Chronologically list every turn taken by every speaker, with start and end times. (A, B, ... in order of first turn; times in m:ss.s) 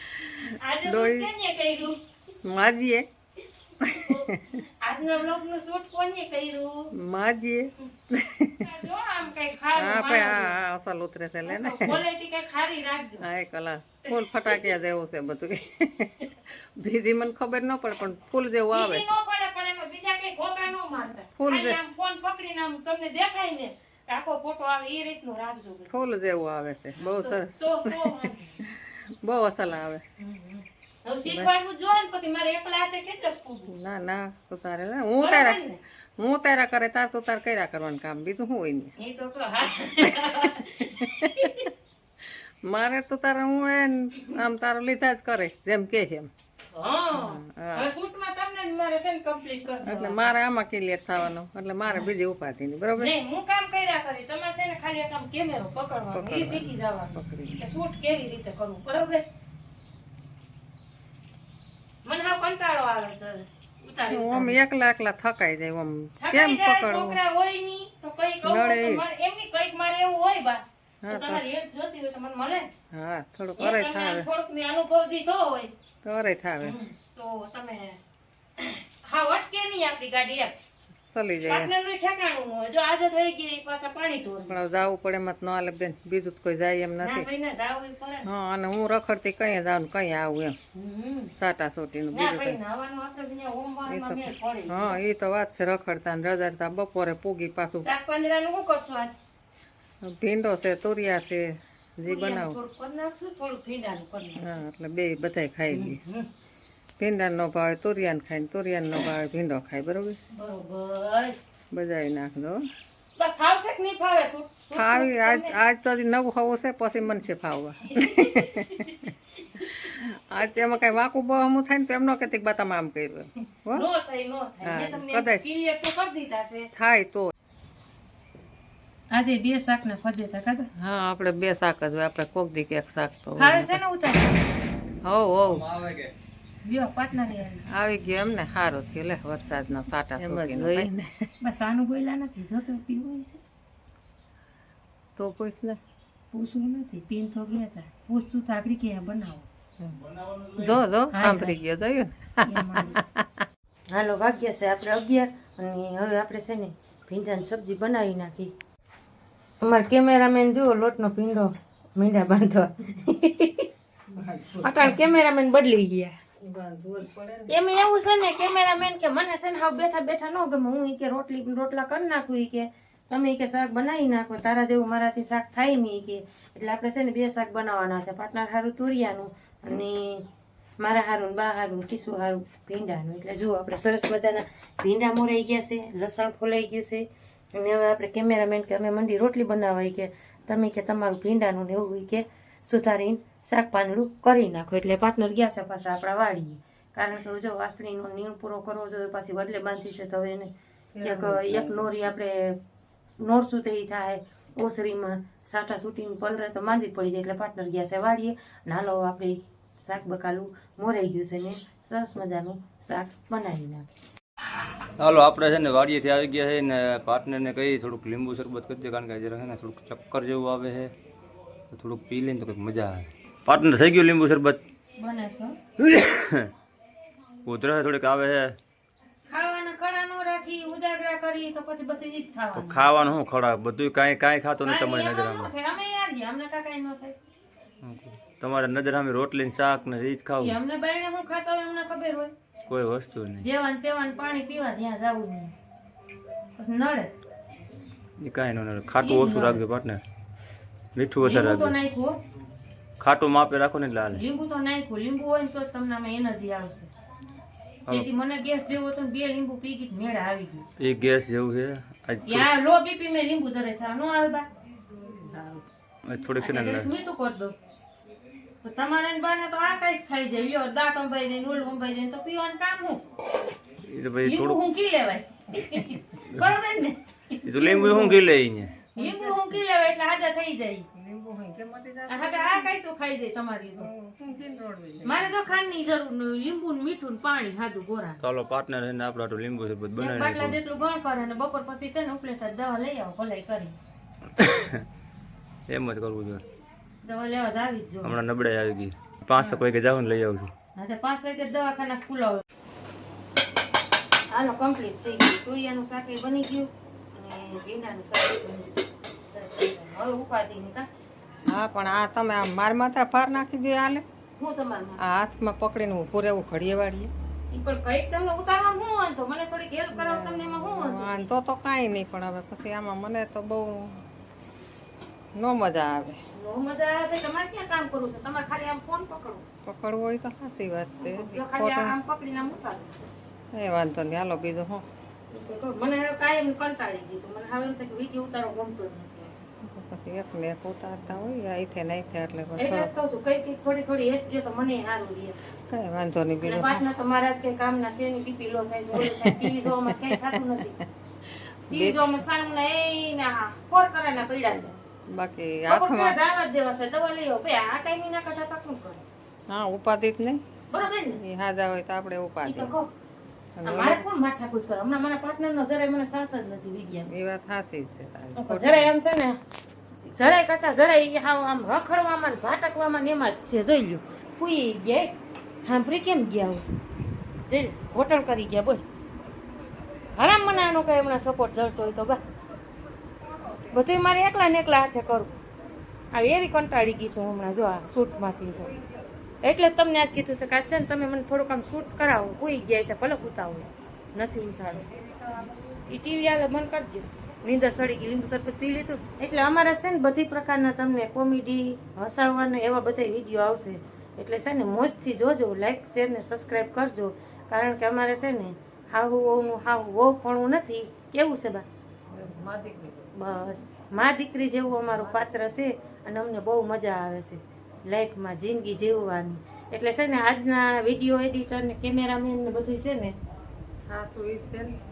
0:00.2-0:02.0 A
0:00.2-0:01.3 B
0:02.4-0:03.0 B
0:03.8-0:04.4 B
0:03.8-0:06.9 A
0:06.9-0:08.6 B
0:08.6-0:10.5 A
0:09.8-0:12.0 B
0:11.4-0:13.2 A
0:13.2-0:19.0 B
0:14.1-0:14.7 A
0:18.7-0:26.0 A
0:21.4-0:21.8 B
0:25.9-0:30.0 B
0:27.0-0:28.6 A
0:30.2-0:33.7 A
0:31.2-0:31.5 B
0:33.7-0:35.6 B
0:35.2-0:35.8 A
0:36.2-0:38.9 B
0:39.0-0:41.7 A
0:40.8-0:41.5 B
0:42.6-0:46.3 B
0:46.7-0:50.3 A
0:47.1-0:47.9 B
0:49.8-0:53.1 B
0:53.0-0:59.2 A
0:56.1-0:57.6 B
1:02.0-1:04.6 A
1:04.1-1:07.2 B
1:06.2-1:12.7 A
1:08.4-1:09.0 B
1:11.0-1:11.4 B
1:12.9-1:14.3 B
1:13.6-1:15.7 A
1:16.0-1:16.8 B
1:16.6-1:18.0 A
1:18.6-1:20.6 A
1:21.1-1:21.7 B
1:21.5-1:24.6 A
1:24.5-1:27.3 B
1:27.0-1:28.2 A
1:28.2-1:30.6 B
1:30.8-1:31.3 A
1:31.4-1:32.6 B
1:32.1-1:35.0 A
1:33.9-1:37.9 B
1:37.8-1:39.1 A
1:40.0-1:42.6 B
1:42.0-1:44.6 A
1:44.4-1:46.0 B
1:45.7-1:46.3 A
1:47.0-1:50.2 B
1:50.3-1:51.4 A
1:51.7-1:52.6 B
1:53.2-1:55.5 A
1:54.7-1:58.9 B
1:57.8-1:59.8 A
1:59.6-2:03.8 B
2:03.7-2:06.7 A
2:04.6-2:05.4 B
2:06.7-2:07.3 B
2:09.1-2:10.7 A
2:10.8-2:13.8 B
2:13.4-2:14.4 A
2:15.0-2:15.6 B
2:15.4-2:16.1 C
2:16.6-2:17.6 A
2:17.7-2:21.2 B
2:20.3-2:20.9 A
2:21.4-2:23.4 A
2:25.2-2:25.8 B
2:26.3-2:29.5 A
2:30.2-2:30.6 C
2:30.5-2:33.4 B
2:31.1-2:31.6 A
2:32.4-2:33.0 A
2:33.9-2:38.5 A
2:39.6-2:43.7 A
2:44.1-2:45.0 B
2:44.6-2:46.2 A
2:46.4-2:47.5 B
2:47.5-3:00.2 A
3:00.8-3:22.6 A
3:20.9-3:21.8 B
3:23.2-3:33.8 A
3:35.0-3:40.9 C
3:41.7-3:44.6 C
3:45.0-3:45.6 A
3:45.8-3:46.5 C
3:47.4-3:48.6 C
3:49.3-3:52.9 A
3:52.5-3:55.5 C
3:54.6-3:57.2 A
3:57.8-4:00.6 C
4:00.4-4:02.3 A
4:02.7-4:03.4 C
4:03.4-4:05.5 A
4:06.6-4:07.1 A
4:08.2-4:10.0 C
4:09.0-4:09.6 A
4:11.0-4:11.7 C
4:11.2-4:12.2 A
4:13.0-4:14.2 C
4:14.1-4:16.9 A
4:17.9-4:20.6 A
4:20.8-4:22.5 C
4:22.2-4:24.5 A
4:25.1-4:25.6 A
4:26.1-4:26.9 C
4:26.4-4:27.5 A
4:28.6-4:33.0 A
4:33.8-4:34.6 C
4:34.2-4:38.3 A
4:37.4-4:38.8 C
4:38.9-4:40.9 A
4:39.0-4:39.6 B
4:40.9-4:42.7 B
4:42.1-4:43.9 A
4:43.8-4:45.3 B
4:45.0-4:48.2 A
4:48.2-4:50.6 C
4:50.0-4:53.7 A
4:54.4-4:54.8 C
4:55.7-4:56.4 C
4:57.0-4:58.1 A
4:58.0-5:00.5 C
5:00.8-5:02.4 A
5:04.3-5:08.7 A
5:09.3-5:10.9 A
5:11.4-5:14.0 B
5:14.4-5:15.0 A
5:15.0-5:17.1 B
5:17.5-5:21.2 A
5:19.9-5:24.0 B
5:25.4-5:26.2 B
5:26.4-5:29.4 A
5:29.6-5:32.0 B
5:31.0-5:33.0 A
5:33.5-5:34.8 B
5:35.3-5:39.3 A
5:39.6-5:42.9 B
5:42.6-5:45.4 A
5:45.7-5:46.8 B
5:46.4-5:50.8 A
5:48.9-5:50.4 B
5:51.7-5:52.2 B
5:51.7-5:54.7 A
5:54.5-5:56.2 B
5:55.7-5:59.0 A
5:59.5-6:00.4 B
6:00.7-6:01.2 A
6:01.1-6:02.7 B
6:02.4-6:02.9 A
6:03.6-6:04.0 B
6:03.6-6:07.1 A
6:07.1-6:08.9 B
6:08.4-6:09.4 A
6:10.0-6:15.1 A
6:15.6-6:16.6 A
6:17.5-6:18.8 A
6:20.2-6:22.2 A
6:23.2-6:23.8 B
6:23.7-6:25.4 A
6:26.1-6:28.7 A
6:28.6-6:29.1 B
6:29.4-6:51.6 A
6:35.0-6:35.4 B
6:52.1-6:53.1 B
6:53.2-7:03.1 A
6:55.0-6:55.2 B
7:03.9-7:04.8 B